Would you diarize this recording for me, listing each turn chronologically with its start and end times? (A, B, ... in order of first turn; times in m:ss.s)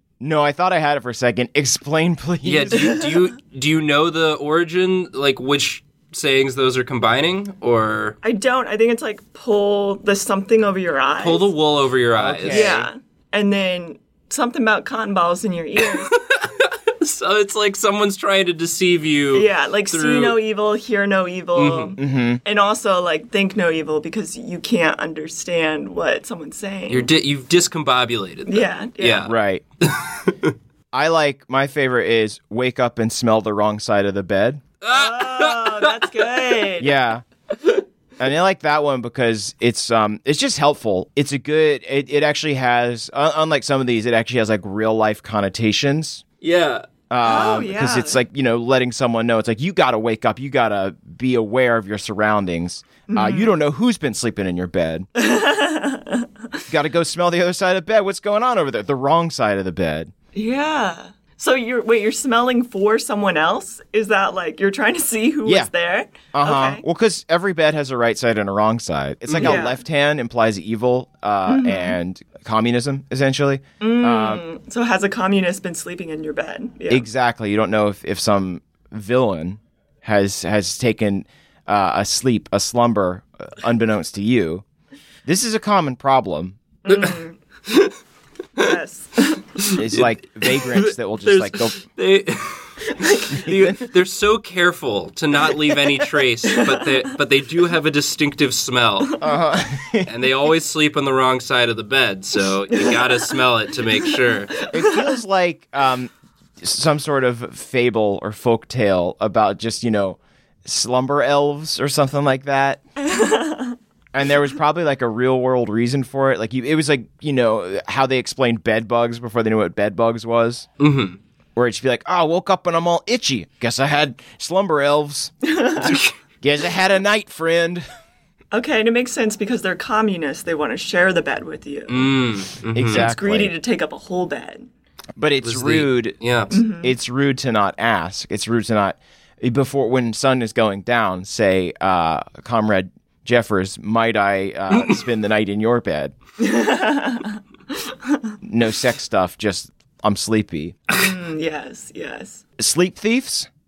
0:00.2-0:03.0 A
0:02.4-0:08.2 B
0:08.2-0:11.5 C
0:11.2-0:12.8 B
0:12.2-0:12.9 A
0:12.5-0:16.2 C
0:15.8-0:20.4 B
0:19.3-0:27.1 C
0:21.6-0:21.9 B
0:22.0-0:22.4 A
0:26.9-0:30.5 B
0:28.5-0:29.3 C
0:29.2-0:29.6 A
0:30.9-0:34.6 A
0:34.8-0:36.4 B
0:34.9-0:36.9 C
0:36.8-0:37.2 A
0:38.2-0:46.2 A
0:46.4-0:46.9 B
0:47.1-0:55.1 A
0:47.2-0:48.2 C
0:53.1-0:53.5 C
0:55.2-0:56.3 C
0:56.7-1:00.1 A
1:00.4-1:06.8 C
1:06.3-1:14.4 A
1:09.3-1:09.6 B
1:09.4-1:09.8 C
1:11.5-1:12.0 C
1:13.8-1:17.1 C
1:16.9-1:24.6 A
1:25.3-1:26.6 A
1:26.8-1:27.4 C
1:26.9-1:28.0 B
1:28.6-1:29.5 C
1:29.6-1:39.2 B
1:29.8-1:31.8 A
1:33.4-1:33.8 A
1:36.5-1:37.1 C
1:39.2-1:40.1 A
1:40.0-1:44.6 B
1:42.7-1:43.2 C
1:44.6-1:45.0 C
1:44.7-1:52.8 A
1:53.0-1:53.8 C
1:54.1-2:00.7 A
2:00.8-2:01.2 B
2:01.6-2:05.3 A
2:05.4-2:06.0 C
2:05.8-2:06.1 B
2:06.4-2:07.8 A
2:08.5-2:12.2 C
2:11.9-2:13.1 B
2:12.7-2:13.5 A
2:12.9-2:14.7 C
2:15.2-2:26.1 A
2:15.4-2:16.6 B
2:16.5-2:16.9 C
2:24.7-2:25.0 B
2:26.4-2:28.4 C
2:28.4-2:30.8 A
2:30.9-2:32.4 C
2:32.6-2:33.5 A